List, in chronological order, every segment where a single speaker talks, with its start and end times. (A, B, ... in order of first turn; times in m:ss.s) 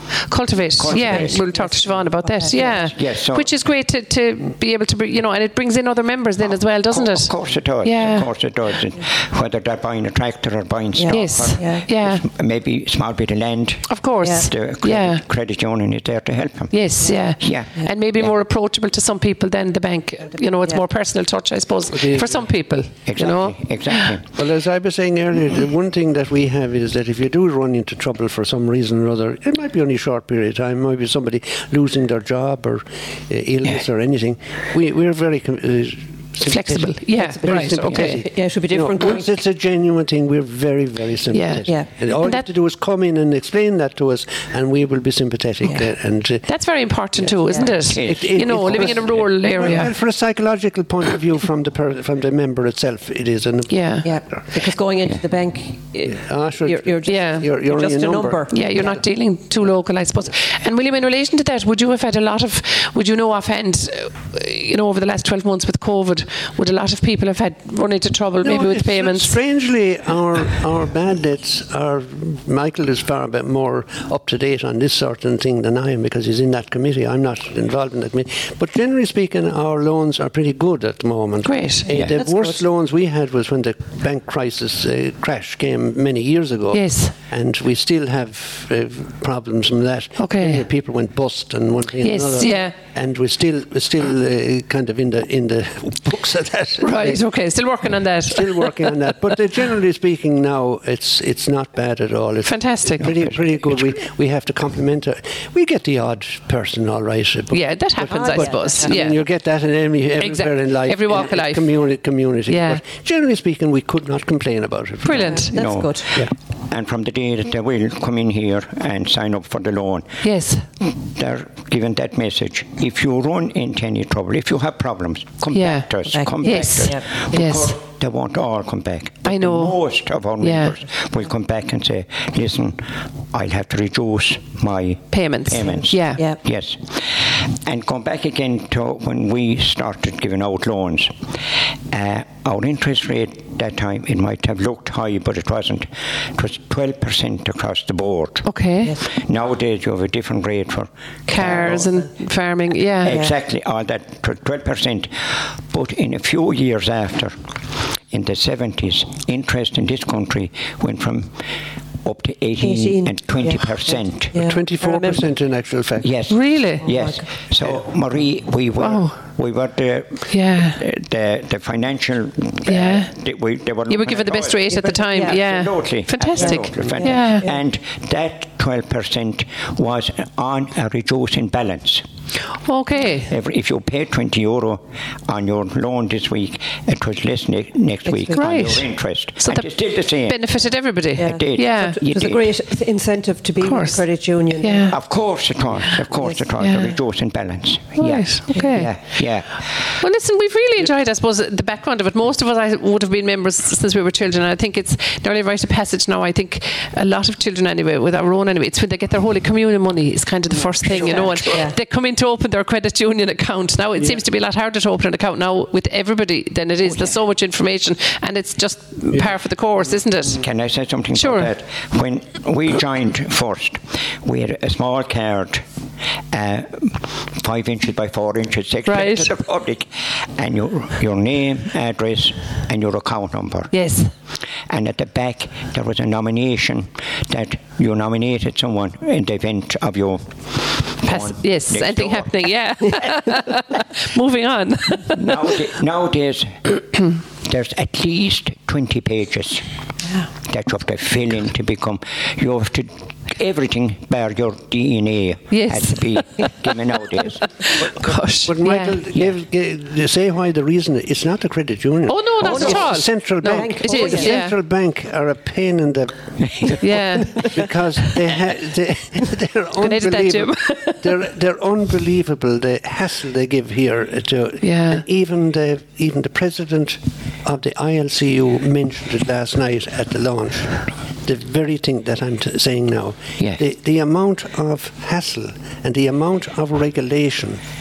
0:00.3-0:08.3 A
0:00.8-0:01.4 B
0:01.0-0:02.9 C
0:03.0-0:03.5 B
0:06.9-0:16.7 B
0:11.0-0:11.8 C
0:11.1-0:12.2 A
0:13.9-0:15.2 A
0:14.2-0:14.5 C
0:16.7-0:24.2 A
0:17.4-0:18.3 B
0:21.9-0:22.4 D
0:23.1-0:24.2 B
0:24.3-0:46.4 D
0:36.5-0:38.2 A
0:37.2-0:39.4 C
0:41.3-0:42.5 A
0:46.5-0:49.9 A
0:47.5-0:47.8 C
0:47.9-0:49.7 B
0:48.0-0:54.4 D
0:53.7-0:54.1 A
0:54.0-0:59.0 C
0:56.0-0:58.4 D
0:57.1-0:57.5 A
0:58.5-1:09.4 A
1:08.4-1:37.2 D
1:21.4-1:21.9 A
1:21.9-1:22.2 B
1:21.9-1:22.6 C
1:26.7-1:27.1 A
1:30.2-1:30.6 A
1:32.0-1:32.8 A
1:36.8-1:38.7 A
1:38.3-1:55.4 D
1:42.4-1:43.1 A
1:47.5-1:49.2 A
1:48.0-1:49.0 C
1:50.2-1:51.7 A
1:52.5-1:52.8 A
1:55.0-1:55.6 A
1:55.1-1:56.1 C
1:55.5-2:00.2 B
2:00.2-2:00.7 A
2:00.8-2:21.2 B
2:05.5-2:07.8 A
2:06.1-2:07.0 C
2:09.2-2:09.8 A
2:10.4-2:10.8 A
2:15.1-2:16.2 A
2:15.9-2:16.4 C
2:21.9-2:28.5 B
2:28.4-2:29.0 A
2:29.0-2:31.9 B
2:31.3-2:33.2 A
2:33.0-2:33.3 C
2:33.0-2:37.6 B
2:38.1-2:41.5 B
2:42.0-2:44.4 B
2:42.6-2:45.2 C
2:44.4-2:46.1 D
2:46.0-3:02.0 B
2:46.3-2:46.9 A
2:46.8-2:47.2 C
2:48.8-2:49.2 A
2:50.3-2:50.8 A
2:52.7-2:53.1 A
2:53.9-2:57.5 A
2:54.8-2:55.4 C
2:56.4-2:57.6 C
3:02.6-3:03.3 A
3:03.3-3:10.4 B
3:08.1-3:08.4 C
3:08.3-3:09.7 A
3:10.2-3:12.0 A
3:11.2-3:12.5 B
3:11.2-3:15.0 C
3:13.6-3:14.0 A
3:14.6-3:15.0 A
3:14.9-3:19.6 B
3:16.1-3:16.4 C
3:16.6-3:17.0 A
3:18.0-3:19.0 A
3:20.0-3:40.5 A
3:31.0-3:31.5 D
3:31.4-3:31.8 C
3:40.4-3:45.6 B
3:41.1-3:41.5 A
3:46.3-3:53.7 B
3:48.9-3:49.3 A
3:53.7-3:54.1 A
3:54.7-4:02.3 B
4:01.0-4:05.5 A
4:05.1-4:09.6 B
4:10.4-4:17.9 B
4:15.5-4:16.5 A
4:17.6-4:19.0 A
4:18.4-4:47.6 D
4:22.1-4:24.6 A
4:22.4-4:24.4 C
4:26.4-4:26.8 B
4:26.8-4:27.6 A
4:29.8-4:31.1 A
4:34.6-4:35.0 A